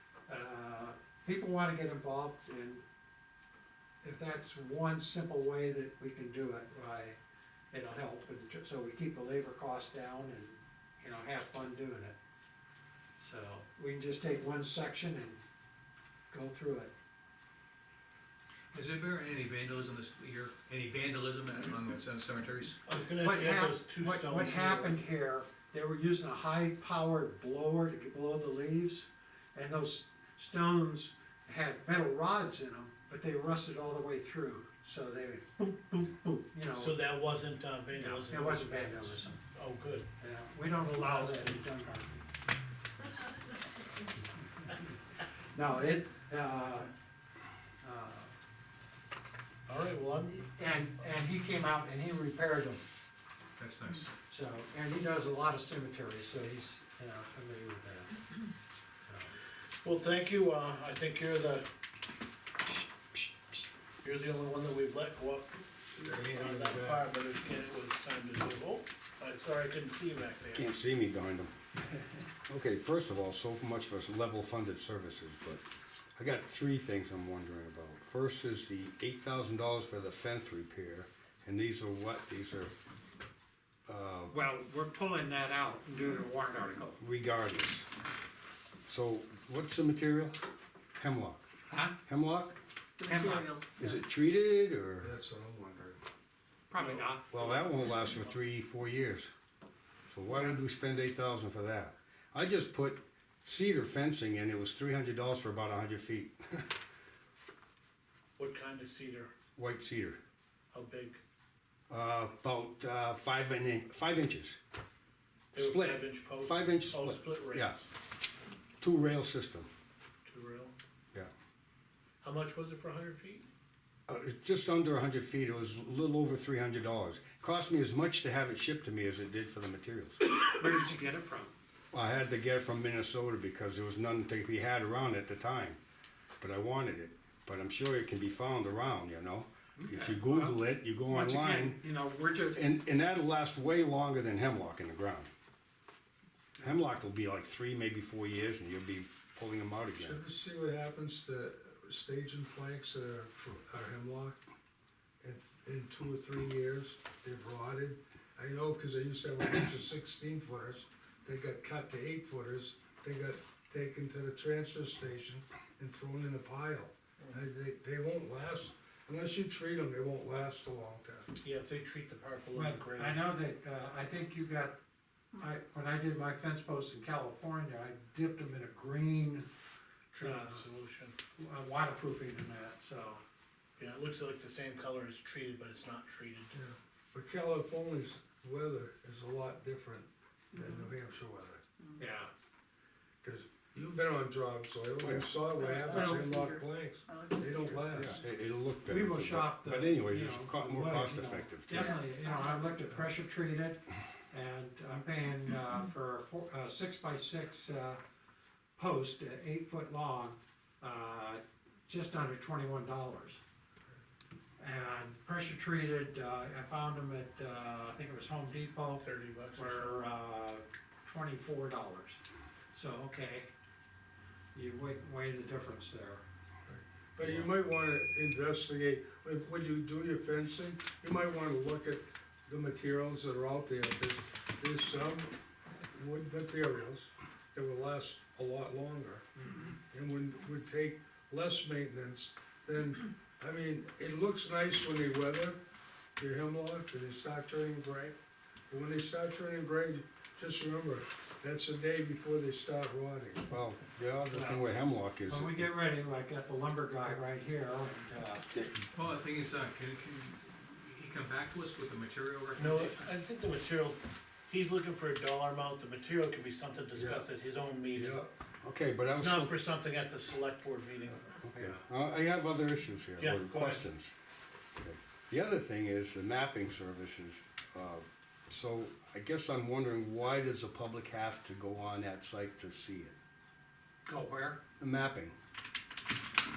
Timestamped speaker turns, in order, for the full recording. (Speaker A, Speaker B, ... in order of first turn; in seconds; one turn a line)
Speaker A: 0.3-2.8
Speaker A: 4.0-7.2
Speaker A: 7.7-12.2
Speaker A: 13.2-15.4
Speaker A: 16.3-16.9
Speaker B: 18.7-22.8
Speaker C: 22.9-25.0
Speaker A: 23.2-37.0
Speaker C: 36.7-40.0
Speaker A: 38.0-39.4
Speaker A: 40.2-42.3
Speaker C: 40.9-41.5
Speaker A: 45.5-46.9
Speaker A: 47.8-48.3
Speaker C: 49.7-50.3
Speaker A: 50.3-52.8
Speaker B: 53.6-54.1
Speaker A: 54.3-58.1
Speaker A: 59.0-59.3
Speaker C: 59.8-61.7
Speaker C: 64.0-65.5
Speaker D: 66.0-67.1
Speaker C: 66.1-70.7
Speaker E: 70.5-71.5
Speaker E: 72.5-75.6
Speaker E: 76.2-82.7
Speaker E: 83.9-84.3
Speaker A: 84.3-87.0
Speaker E: 87.0-87.9
Speaker E: 88.9-90.4
Speaker E: 91.0-91.5
Speaker A: 91.7-92.0
Speaker E: 92.0-92.6
Speaker F: 93.0-93.9
Speaker A: 93.0-93.5
Speaker E: 93.8-95.1
Speaker D: 95.0-96.0
Speaker A: 96.7-97.5
Speaker C: 96.8-97.1
Speaker E: 97.3-99.3
Speaker E: 100.1-106.7
Speaker A: 100.3-100.6
Speaker C: 108.4-109.3
Speaker E: 109.5-110.2
Speaker C: 110.7-111.2
Speaker E: 111.9-114.6
Speaker C: 115.5-117.8
Speaker E: 115.5-117.8
Speaker E: 118.8-119.7
Speaker C: 120.2-120.7
Speaker C: 122.2-123.5
Speaker E: 124.1-130.2
Speaker A: 130.4-131.5
Speaker E: 131.9-135.8
Speaker E: 136.4-141.8
Speaker A: 139.8-142.6
Speaker E: 142.5-145.3
Speaker E: 146.6-150.2
Speaker D: 150.0-154.4
Speaker D: 155.2-171.3
Speaker C: 171.4-173.3
Speaker A: 172.5-174.8
Speaker A: 175.3-179.5
Speaker C: 180.1-181.1
Speaker A: 180.2-180.6
Speaker A: 181.4-183.2
Speaker C: 183.8-186.5
Speaker D: 186.5-191.6
Speaker F: 190.6-190.9
Speaker A: 192.0-192.3
Speaker D: 193.2-198.2
Speaker E: 195.0-195.3
Speaker F: 195.5-198.1
Speaker A: 195.9-196.2
Speaker E: 197.9-202.0
Speaker A: 198.9-208.0
Speaker F: 201.8-202.8
Speaker A: 208.8-213.4
Speaker A: 214.6-219.0
Speaker C: 219.0-220.0
Speaker A: 219.5-222.2
Speaker A: 222.7-223.5
Speaker A: 224.5-226.2
Speaker D: 226.7-235.3
Speaker E: 227.2-227.5
Speaker D: 235.9-245.6
Speaker D: 246.2-248.2
Speaker D: 248.7-253.5
Speaker E: 253.5-255.6
Speaker A: 254.3-258.5
Speaker B: 258.9-263.1
Speaker C: 262.5-268.2
Speaker D: 266.9-267.2
Speaker D: 267.9-268.3
Speaker E: 268.6-269.5
Speaker C: 269.1-271.4
Speaker E: 271.4-274.1
Speaker C: 273.2-273.8
Speaker E: 274.8-283.1
Speaker A: 284.1-284.6
Speaker E: 284.8-285.3